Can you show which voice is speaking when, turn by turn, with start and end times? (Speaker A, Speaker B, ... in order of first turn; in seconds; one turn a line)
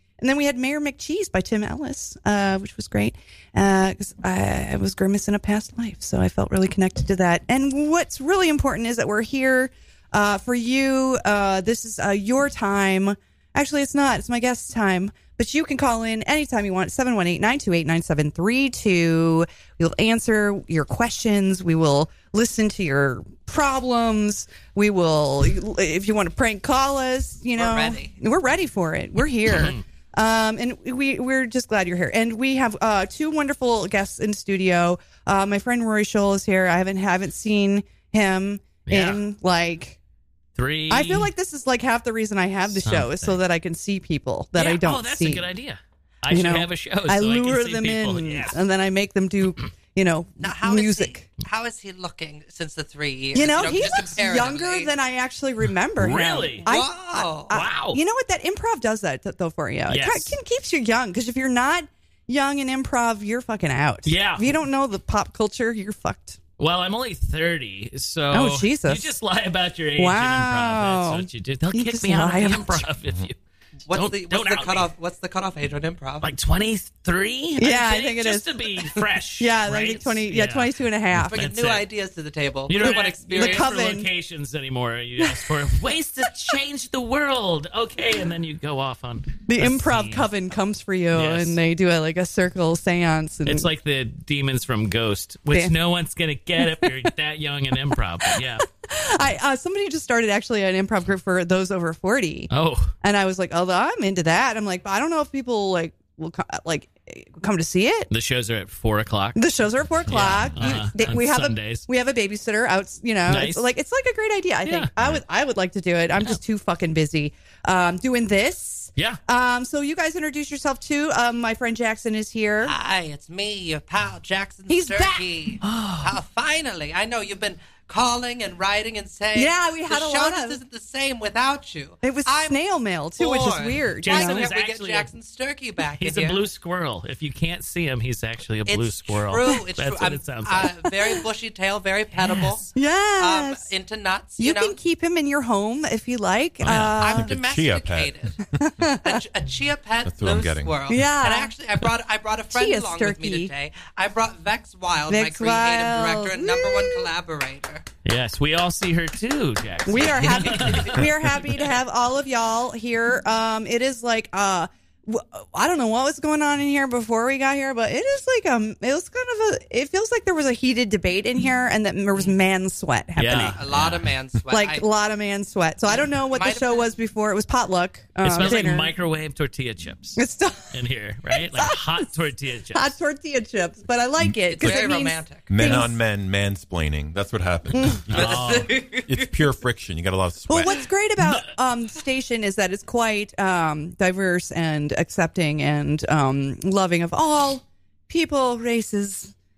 Speaker A: 0.2-40.0
Speaker B: 27.6-28.1
Speaker C: 38.9-39.2
Speaker C: 40.6-41.3
Speaker A: 40.9-45.5
Speaker C: 42.8-43.4
Speaker C: 44.5-48.6
Speaker A: 46.3-51.3
Speaker B: 50.4-54.9
Speaker A: 53.4-66.4
Speaker C: 56.0-56.7
Speaker B: 56.6-57.5
Speaker C: 57.5-58.0
Speaker C: 59.9-60.4
Speaker C: 64.0-64.5
Speaker C: 66.6-73.4
Speaker A: 68.3-69.1
Speaker A: 70.0-72.9
Speaker B: 73.9-76.3
Speaker C: 73.9-74.9
Speaker C: 76.2-81.9
Speaker A: 77.6-78.6
Speaker A: 79.4-81.4
Speaker B: 81.2-83.7
Speaker C: 82.7-90.3
Speaker A: 82.9-84.1
Speaker A: 89.5-93.7
Speaker C: 91.1-91.6
Speaker C: 93.5-98.7
Speaker A: 96.6-96.9
Speaker A: 98.7-102.5
Speaker C: 102.5-102.9
Speaker A: 103.0-108.1
Speaker C: 108.1-109.4
Speaker A: 109.4-122.7
Speaker C: 110.1-111.9
Speaker C: 113.3-113.7
Speaker C: 114.7-114.9
Speaker B: 122.6-132.6
Speaker A: 124.7-125.3
Speaker C: 125.6-126.1
Speaker A: 129.3-130.6
Speaker A: 132.0-134.4
Speaker B: 133.2-136.4
Speaker C: 134.0-135.1
Speaker C: 136.0-140.8
Speaker B: 138.7-144.8
Speaker A: 142.7-143.7
Speaker A: 144.4-147.3
Speaker C: 146.6-147.1
Speaker B: 146.7-148.4
Speaker D: 147.0-148.4
Speaker A: 148.6-149.2
Speaker B: 149.0-157.9
Speaker D: 150.1-150.8
Speaker A: 150.9-151.6
Speaker A: 152.5-153.5
Speaker A: 155.1-157.1
Speaker C: 158.1-161.3
Speaker A: 159.9-173.6
Speaker B: 160.1-161.1
Speaker C: 173.2-174.1
Speaker B: 173.3-174.9
Speaker A: 174.5-178.9
Speaker B: 175.9-176.9
Speaker C: 178.2-182.9
Speaker A: 180.2-180.7
Speaker A: 181.3-182.1
Speaker A: 182.7-186.0
Speaker B: 184.4-185.7
Speaker D: 184.6-184.9
Speaker D: 185.5-188.5
Speaker A: 187.8-188.0
Speaker C: 188.1-188.8
Speaker B: 188.1-189.3
Speaker D: 189.1-190.8
Speaker A: 190.5-199.3
Speaker C: 191.2-191.5